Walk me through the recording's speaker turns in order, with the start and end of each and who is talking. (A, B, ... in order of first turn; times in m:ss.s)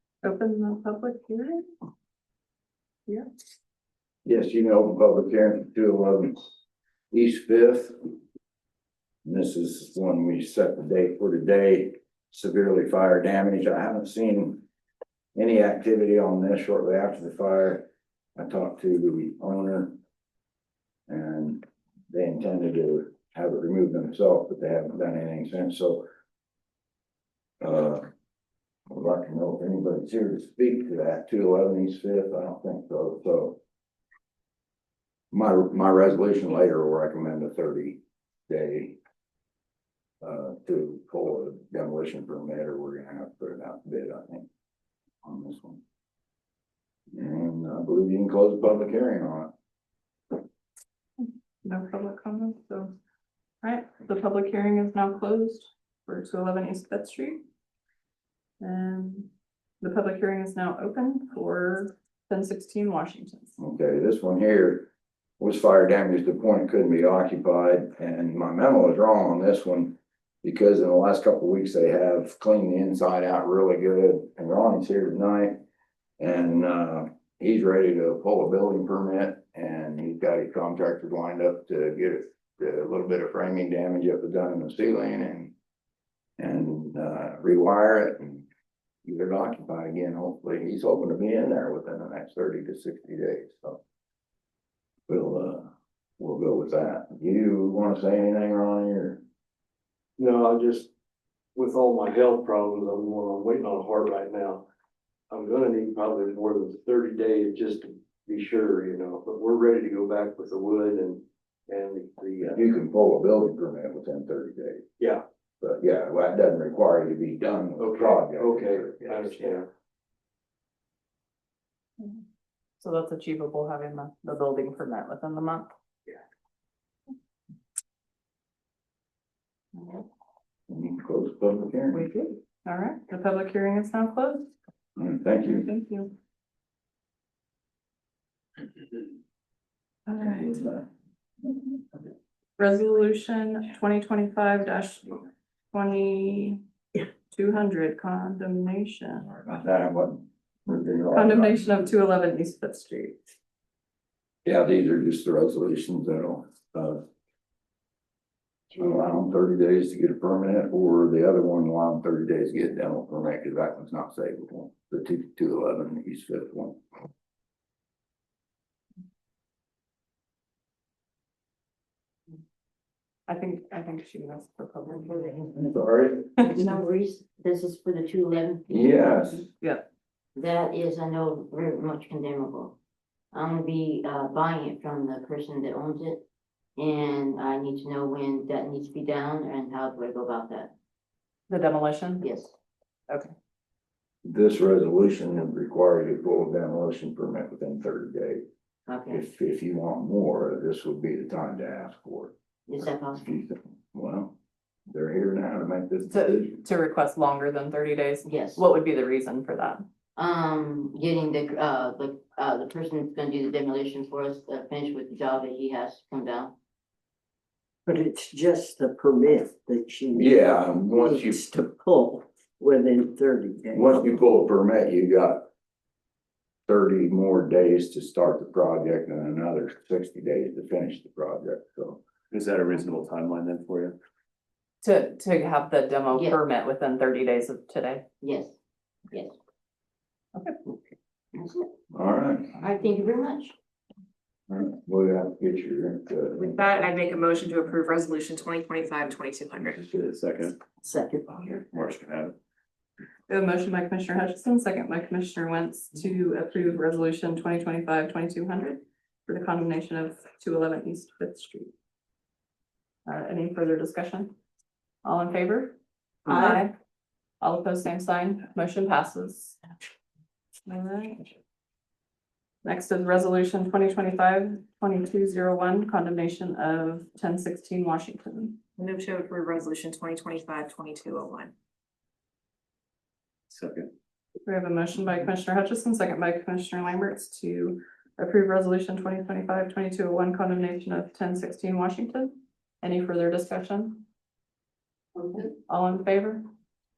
0:00.2-0:01.6 A
0:04.2-0:06.5 B
0:07.1-0:08.0 B
0:09.2-0:14.6 B
0:15.3-0:20.0 B
0:21.1-0:26.0 B
0:27.6-0:28.0 B
0:28.9-0:33.6 B
0:35.3-0:39.0 B
0:40.2-0:44.5 B
0:45.2-0:45.8 B
0:47.1-0:49.5 B
0:51.6-0:52.9 A
0:53.6-0:57.4 A
0:58.6-1:03.5 A
1:03.6-1:15.6 B
1:16.2-1:25.5 B
1:26.4-1:28.4 B
1:29.0-1:33.8 B
1:35.1-1:39.2 B
1:40.2-1:40.9 C
1:41.6-1:44.6 C
1:45.3-1:52.6 C
1:52.5-1:54.8 B
1:55.6-1:59.5 B
1:57.8-1:59.7 C
2:02.8-2:05.7 A
2:09.7-2:10.0 A
2:10.7-2:12.1 B
2:11.9-2:14.5 A
2:15.0-2:15.6 B
2:15.4-2:16.1 A
2:20.1-2:20.7 A
2:22.6-2:26.6 A
2:27.3-2:29.3 A
2:29.5-2:31.7 B
2:31.1-2:33.2 A
2:34.4-2:37.0 B
2:38.7-2:46.8 B
2:53.3-2:55.2 A
2:55.4-2:56.3 B
2:56.4-2:58.8 D
2:58.7-2:59.5 B
2:59.6-2:59.8 A
3:00.4-3:02.8 D
3:03.3-3:06.2 D
3:06.8-3:10.7 D
3:11.5-3:12.3 A
3:12.2-3:12.5 D
3:14.2-3:18.4 B
3:18.9-3:19.3 D
3:19.1-3:22.3 B
3:22.7-3:23.3 D
3:22.9-3:24.3 B
3:24.9-3:26.6 B
3:26.1-3:29.8 A
3:28.2-3:28.6 D
3:30.2-3:36.5 D
3:37.8-3:40.4 E
3:40.2-3:41.4 B
3:41.0-3:44.1 E
3:43.7-3:45.5 B
3:46.7-3:52.0 B
3:52.3-3:54.0 F
3:54.8-3:58.0 A
3:56.1-3:56.4 D
3:58.2-3:58.6 D
4:01.3-4:01.6 D
4:01.9-4:02.5 B
4:02.6-4:03.5 D
4:04.5-4:06.6 B
4:06.3-4:09.8 G
4:09.8-4:10.6 F
4:11.3-4:12.3 F
4:13.3-4:21.7 A
4:23.0-4:24.3 A
4:25.0-4:25.8 A
4:26.3-4:26.7 A
4:27.4-4:29.6 A
4:30.6-4:31.2 A
4:32.6-4:38.6 A
4:38.8-4:41.5 G
4:43.5-4:43.9 F
4:44.4-4:54.0 A
4:55.7-4:56.4 A